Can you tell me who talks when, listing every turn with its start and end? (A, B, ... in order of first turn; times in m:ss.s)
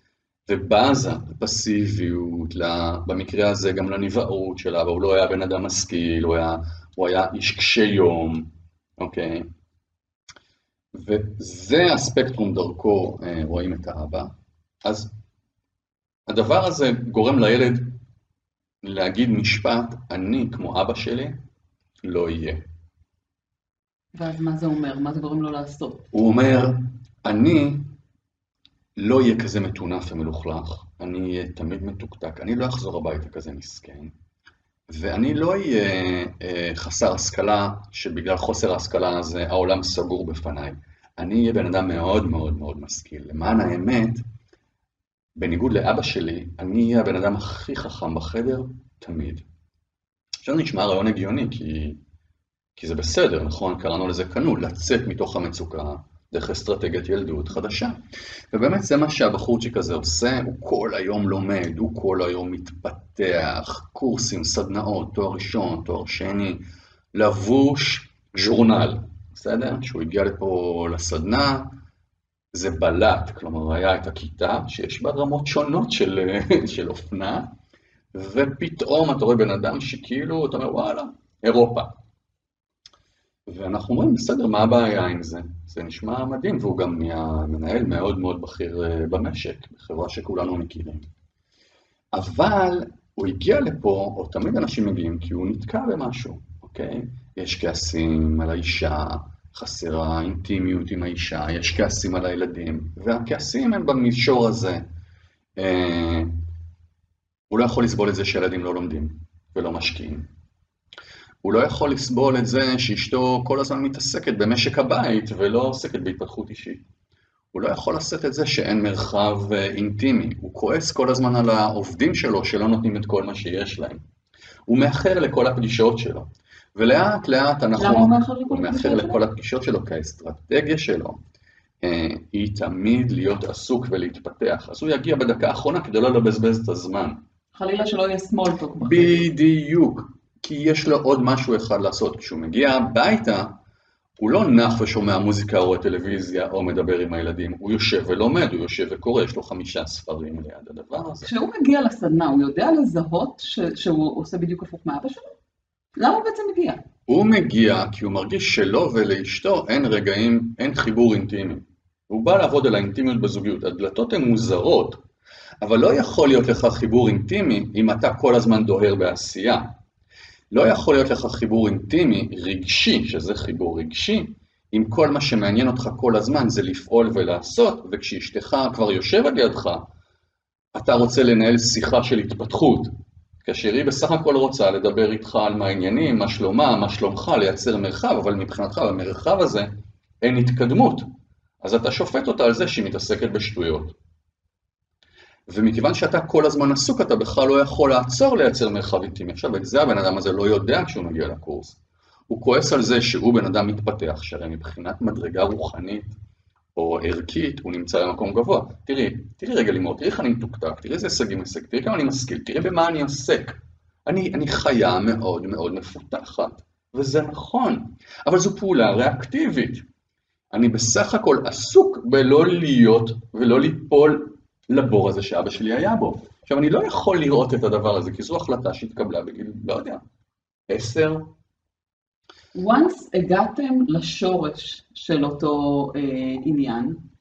0:00.5-0:09.5 A
0:10.9-0:14.3 A
0:14.8-0:15.1 A
0:16.3-0:18.0 A
0:18.8-0:21.4 A
0:22.0-0:22.7 A
0:24.2-0:26.1 B
0:26.1-0:27.9 A
0:29.0-0:34.1 A
0:34.9-0:44.2 A
0:45.4-0:49.4 A
0:50.4-0:52.0 A
0:52.8-0:58.0 A
0:58.5-1:06.6 A
1:07.1-1:11.8 A
1:12.5-1:17.5 A
1:18.1-1:22.0 A
1:23.5-1:31.1 A
1:32.1-1:44.8 A
1:45.6-1:46.4 A
1:47.5-1:50.3 A
1:51.4-1:56.8 A
1:57.5-2:04.0 A
2:04.7-2:11.2 A
2:07.8-2:09.2 B
2:11.8-2:17.2 A
2:17.5-2:19.3 B
2:18.8-2:23.5 A
2:24.2-2:31.3 A
2:31.2-2:35.3 B
2:36.0-2:36.8 B
2:37.1-2:45.0 A
2:45.6-2:49.7 A
2:50.5-2:59.9 A
3:00.7-3:02.9 A
3:03.4-3:09.7 A
3:10.2-3:11.1 A
3:11.6-3:14.0 A
3:15.5-3:26.2 A
3:26.8-3:39.8 A
3:40.5-3:50.0 A
3:50.7-3:51.3 A
3:52.5-3:57.0 B